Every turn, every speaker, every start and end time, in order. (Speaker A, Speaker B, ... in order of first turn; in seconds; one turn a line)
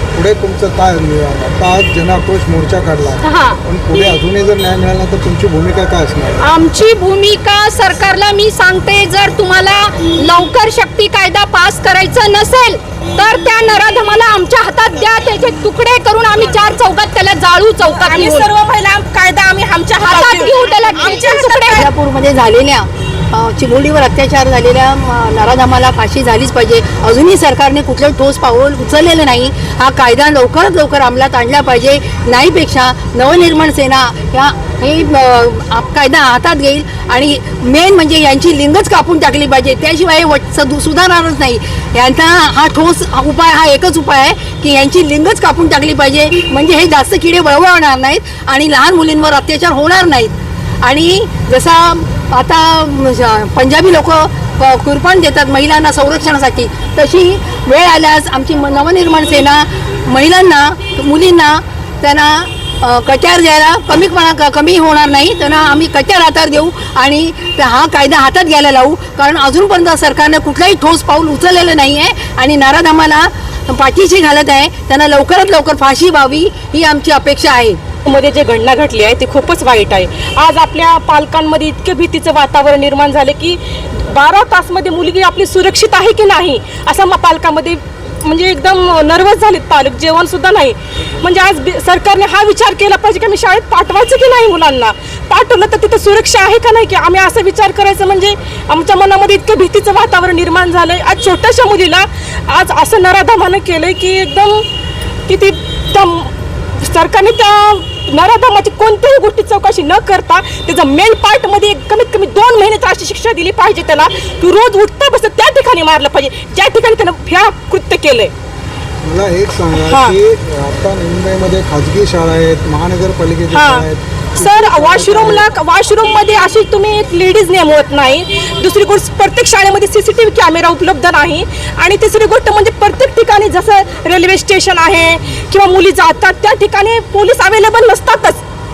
Speaker A: 0.1-6.4
Speaker B: 3.2-3.6
Speaker B: 6.4-18.5
Speaker C: 17.9-21.9
Speaker B: 20.0-21.9
Speaker D: 21.8-77.8
Speaker C: 78.0-104.7
Speaker C: 105.3-118.3
Speaker A: 119.0-125.5
Speaker C: 119.7-120.2
Speaker C: 123.5-138.4